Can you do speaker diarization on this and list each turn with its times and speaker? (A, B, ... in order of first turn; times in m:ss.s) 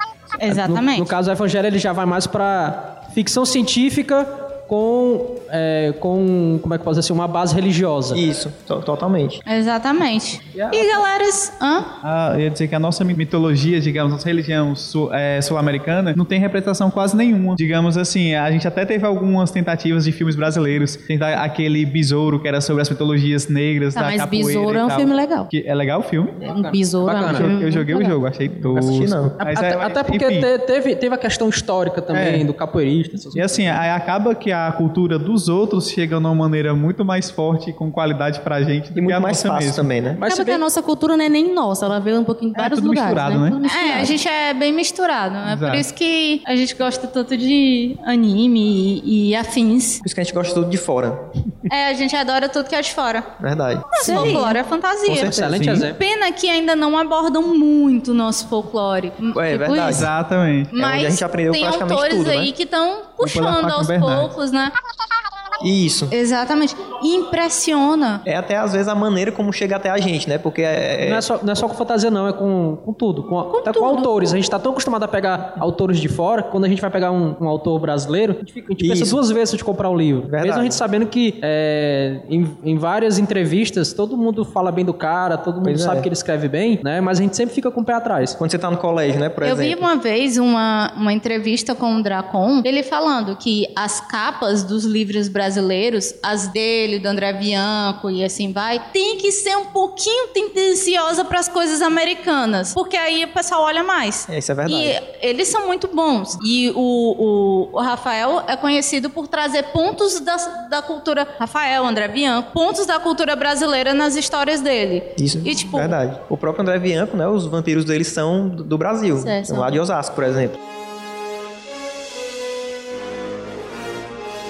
0:00.4-0:01.1 A
0:00.5-0:08.2 B
0:08.1-0:09.4 C
0:09.5-0:11.9 A
0:10.5-0:10.9 B
0:12.0-0:26.7 D
0:23.9-0:25.5 E
0:26.4-0:28.2 E
0:27.0-0:27.5 B
0:27.2-0:30.5 D
0:28.5-0:29.4 C
0:29.4-0:33.7 B
0:32.1-0:32.5 D
0:33.3-0:39.9 D
0:38.9-0:40.2 C
0:40.2-0:40.6 B
0:40.2-0:44.2 E
0:42.6-0:43.6 D
0:43.6-0:50.0 A
0:45.4-0:45.8 D
0:50.0-0:51.2 C
0:51.7-0:53.3 A
0:53.4-0:54.4 C
0:53.9-0:59.9 A
0:54.0-0:54.5 B
0:55.1-0:55.6 C
0:55.1-0:56.0 B
0:55.5-0:55.9 D
0:59.3-1:00.1 C
0:59.7-1:00.7 D
1:00.7-1:04.7 A
1:00.8-1:02.5 C
1:03.2-1:04.3 D
1:05.6-1:06.1 C
1:06.1-1:08.2 A
1:08.2-1:11.3 C
1:11.0-1:28.4 B
1:13.5-1:14.1 A
1:18.8-1:19.2 C
1:20.3-1:20.8 C
1:25.6-1:26.1 C
1:28.4-1:29.8 C
1:29.4-1:55.9 A
1:44.3-1:45.0 C
1:55.2-2:00.6 C
1:59.2-1:59.7 E